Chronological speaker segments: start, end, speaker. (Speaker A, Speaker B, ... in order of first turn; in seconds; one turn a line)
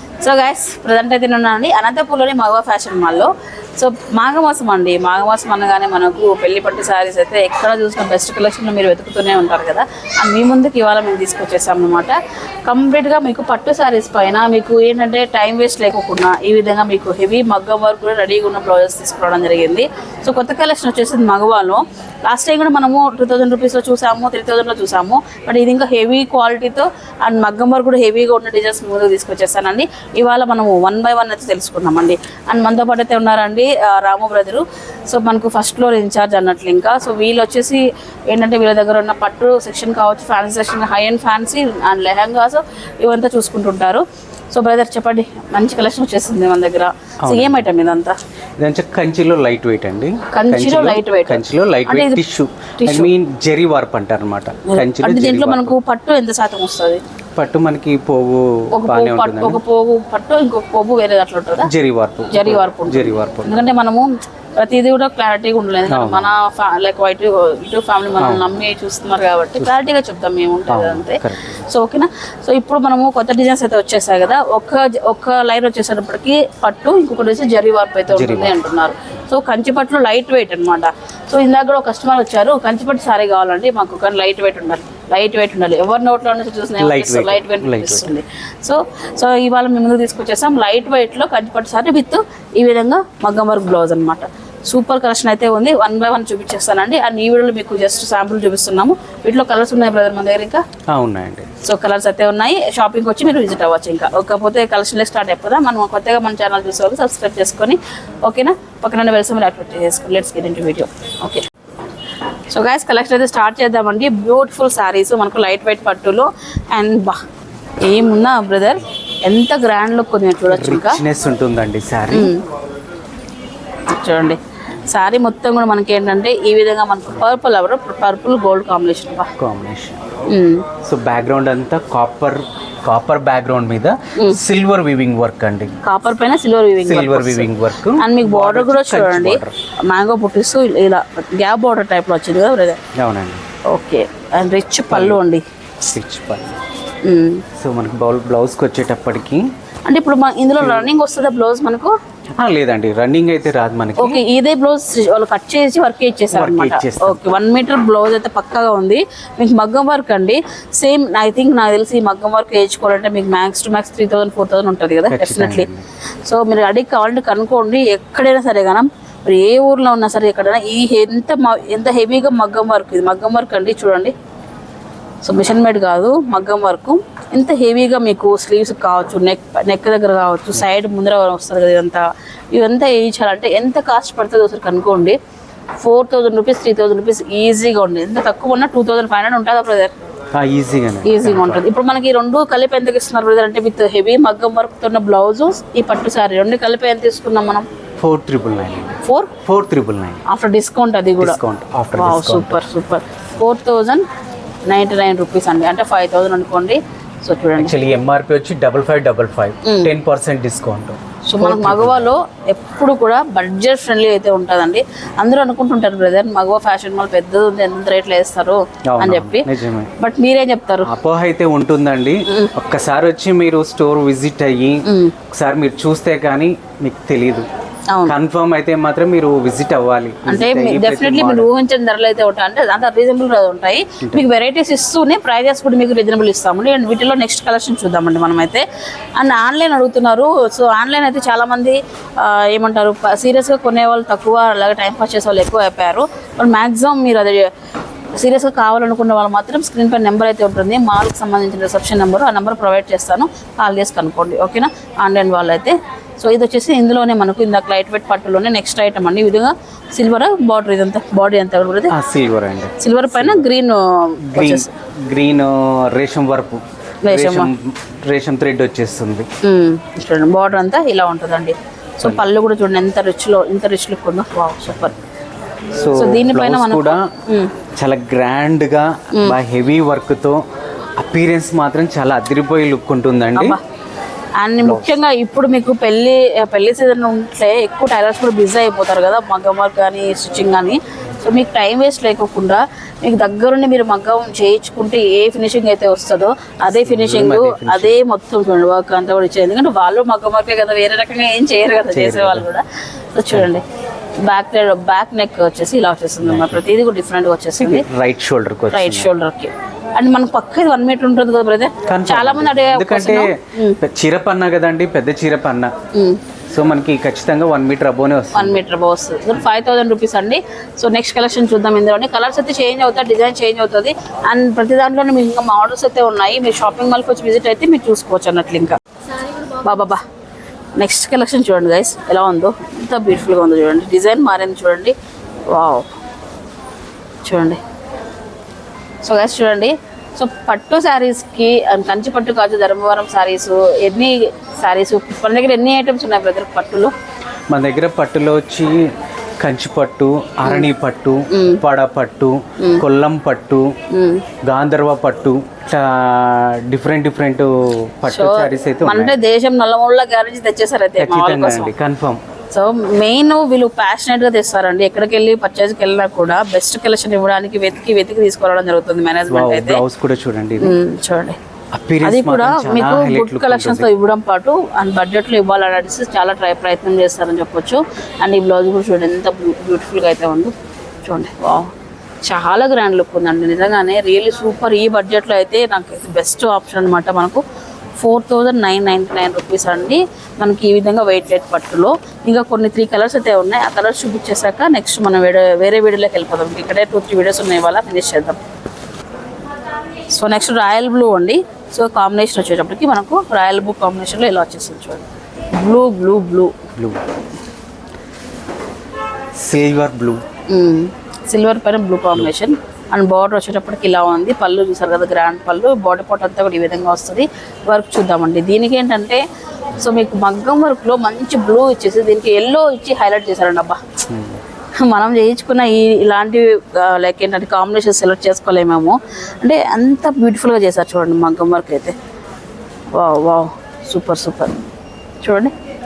Speaker A: 0.2-12.2
Speaker A: 12.7-48.1
Speaker B: 47.2-47.6
Speaker B: 48.6-55.7
Speaker A: 50.3-52.2
Speaker A: 52.8-53.1
Speaker A: 54.7-57.0
Speaker B: 57.4-59.6
Speaker A: 58.7-61.7
Speaker B: 61.6-63.8
Speaker A: 62.3-64.1
Speaker A: 64.6-100.6
Speaker B: 65.9-66.3
Speaker B: 68.2-68.5
Speaker B: 69.6-69.9
Speaker B: 70.7-71.7
Speaker B: 78.1-78.6
Speaker B: 86.8-88.1
Speaker B: 100.9-101.5
Speaker A: 101.6-111.4
Speaker A: 112.5-117.2
Speaker A: 117.8-121.0
Speaker B: 120.5-122.3
Speaker A: 122.1-122.4
Speaker A: 123.9-124.4
Speaker A: 124.9-129.3
Speaker B: 129.4-130.0
Speaker A: 130.3-130.7
Speaker B: 130.8-135.7
Speaker A: 135.8-142.8
Speaker B: 136.8-139.5
Speaker B: 142.9-143.4
Speaker A: 143.7-145.4
Speaker B: 144.9-145.2
Speaker B: 145.8-146.6
Speaker A: 147.0-147.4
Speaker B: 147.6-149.4
Speaker A: 149.9-151.9
Speaker B: 150.6-150.9
Speaker B: 152.4-154.2
Speaker A: 154.0-165.7
Speaker B: 156.3-157.2
Speaker B: 165.1-165.8
Speaker A: 166.2-174.1
Speaker A: 175.2-185.2
Speaker A: 185.8-189.9
Speaker B: 190.3-191.6
Speaker A: 191.0-197.7
Speaker B: 198.0-200.2
Speaker A: 199.0-199.3
Speaker A: 200.2-201.4
Speaker B: 201.2-202.6
Speaker A: 201.9-204.0
Speaker A: 204.7-207.7
Speaker B: 207.6-212.1
Speaker A: 209.6-209.9
Speaker A: 211.2-219.5
Speaker B: 218.9-219.9
Speaker A: 220.0-220.9
Speaker B: 220.8-227.5
Speaker A: 224.8-225.1
Speaker A: 227.9-228.1
Speaker B: 228.1-231.5
Speaker A: 230.2-238.6
Speaker A: 239.2-247.5
Speaker A: 248.2-261.9
Speaker B: 261.9-263.4
Speaker A: 262.8-264.7
Speaker B: 264.3-269.3
Speaker A: 267.0-267.5
Speaker A: 269.4-274.9
Speaker B: 275.8-277.1
Speaker A: 275.9-277.5
Speaker B: 277.8-280.4
Speaker B: 281.0-283.6
Speaker A: 284.4-302.6
Speaker B: 284.6-284.9
Speaker B: 296.7-298.0
Speaker B: 301.9-302.5
Speaker A: 303.1-303.6
Speaker A: 304.2-307.9
Speaker B: 306.2-306.7
Speaker B: 307.6-309.1
Speaker A: 308.7-313.8
Speaker B: 311.9-315.7
Speaker A: 315.9-316.2
Speaker B: 316.5-318.6
Speaker A: 318.3-330.0
Speaker A: 330.8-334.9
Speaker A: 335.5-335.9
Speaker A: 337.2-337.6
Speaker A: 339.0-346.9
Speaker B: 347.5-348.8
Speaker B: 349.4-353.7
Speaker A: 350.4-350.7
Speaker A: 351.3-351.6
Speaker A: 353.9-354.2
Speaker B: 354.4-359.1
Speaker A: 358.1-361.7
Speaker B: 361.0-362.2
Speaker A: 362.5-369.8
Speaker B: 369.3-370.8
Speaker A: 370.6-371.4
Speaker B: 371.7-373.9
Speaker A: 372.0-380.5
Speaker A: 381.1-381.7
Speaker A: 382.2-387.4
Speaker A: 388.0-398.4
Speaker A: 400.1-405.0
Speaker A: 405.6-406.6
Speaker B: 409.4-410.2
Speaker A: 410.5-419.2
Speaker A: 419.7-423.8
Speaker B: 424.1-424.4
Speaker A: 424.8-431.9
Speaker A: 432.9-434.5
Speaker A: 435.2-435.5